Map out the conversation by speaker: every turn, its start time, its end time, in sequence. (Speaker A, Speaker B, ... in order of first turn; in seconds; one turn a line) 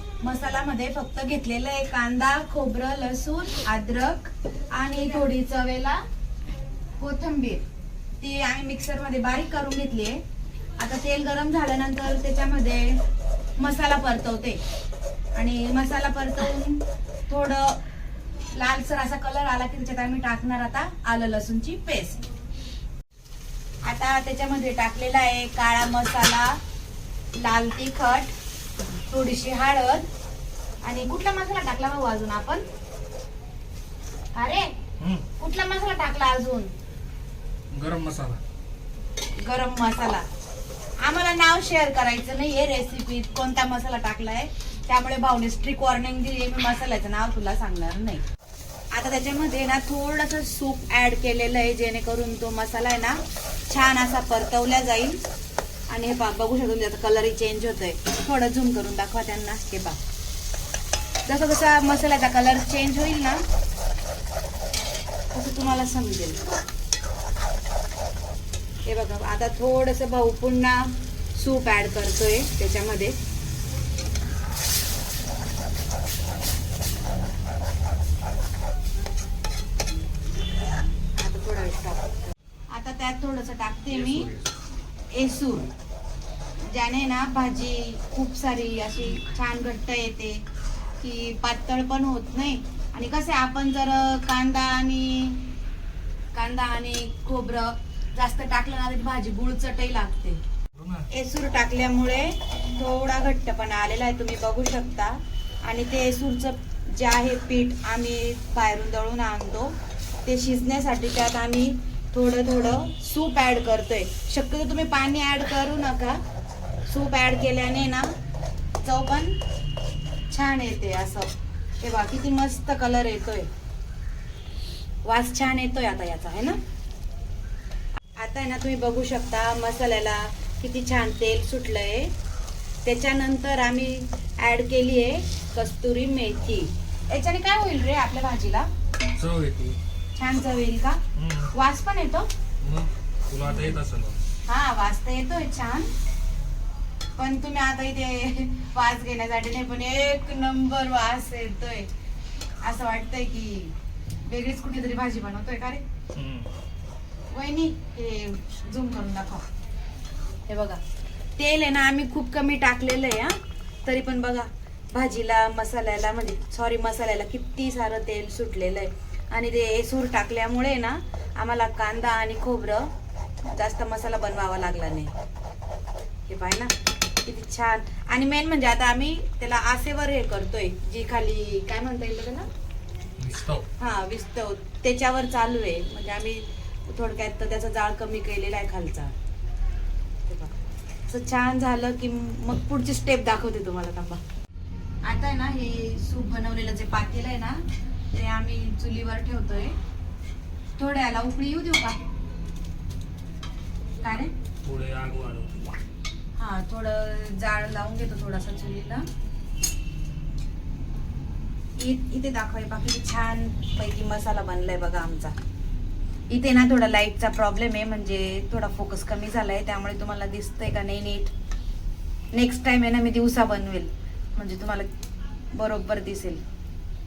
Speaker A: 0.2-6.0
Speaker A: 7.0-7.6
Speaker A: 8.2-10.2
Speaker A: 10.8-13.0
Speaker A: 13.6-14.6
Speaker A: 15.3-17.8
Speaker A: 18.5-22.2
Speaker A: 23.8-26.6
Speaker A: 27.3-28.3
Speaker A: 29.1-30.1
Speaker A: 30.8-32.6
Speaker A: 34.3-34.7
Speaker B: 35.0-35.2
Speaker A: 35.4-36.7
Speaker B: 37.7-38.4
Speaker A: 39.4-40.2
Speaker A: 41.0-48.2
Speaker A: 48.9-55.2
Speaker A: 55.9-60.0
Speaker A: 61.2-63.4
Speaker A: 65.3-66.4
Speaker A: 68.8-73.2
Speaker A: 81.2-82.2
Speaker A: 82.7-84.3
Speaker B: 83.9-84.5
Speaker A: 85.1-85.7
Speaker A: 86.7-90.4
Speaker A: 91.0-95.5
Speaker A: 96.3-100.4
Speaker B: 100.7-101.1
Speaker A: 101.1-116.2
Speaker A: 116.9-118.1
Speaker A: 118.8-119.4
Speaker A: 120.3-121.3
Speaker A: 121.8-123.5
Speaker A: 125.0-126.6
Speaker A: 128.2-132.1
Speaker A: 132.8-138.7
Speaker B: 139.2-139.8
Speaker A: 140.2-141.0
Speaker B: 141.2-141.5
Speaker A: 141.5-142.3
Speaker B: 142.6-144.2
Speaker A: 144.4-145.9
Speaker A: 147.2-151.9
Speaker A: 152.6-153.7
Speaker A: 154.2-155.8
Speaker B: 156.1-156.5
Speaker A: 157.3-159.4
Speaker A: 160.5-160.8
Speaker A: 161.4-172.9
Speaker A: 173.4-175.1
Speaker A: 176.3-176.7
Speaker A: 177.2-182.5
Speaker B: 183.2-183.7
Speaker A: 183.8-189.1
Speaker A: 190.3-190.5
Speaker A: 191.1-194.2
Speaker A: 195.0-197.6
Speaker A: 198.1-199.7
Speaker A: 200.8-202.0
Speaker A: 204.0-204.3
Speaker B: 204.6-205.6
Speaker A: 206.4-209.0
Speaker A: 211.8-215.3
Speaker A: 216.3-221.3
Speaker A: 222.3-224.9
Speaker A: 225.5-226.4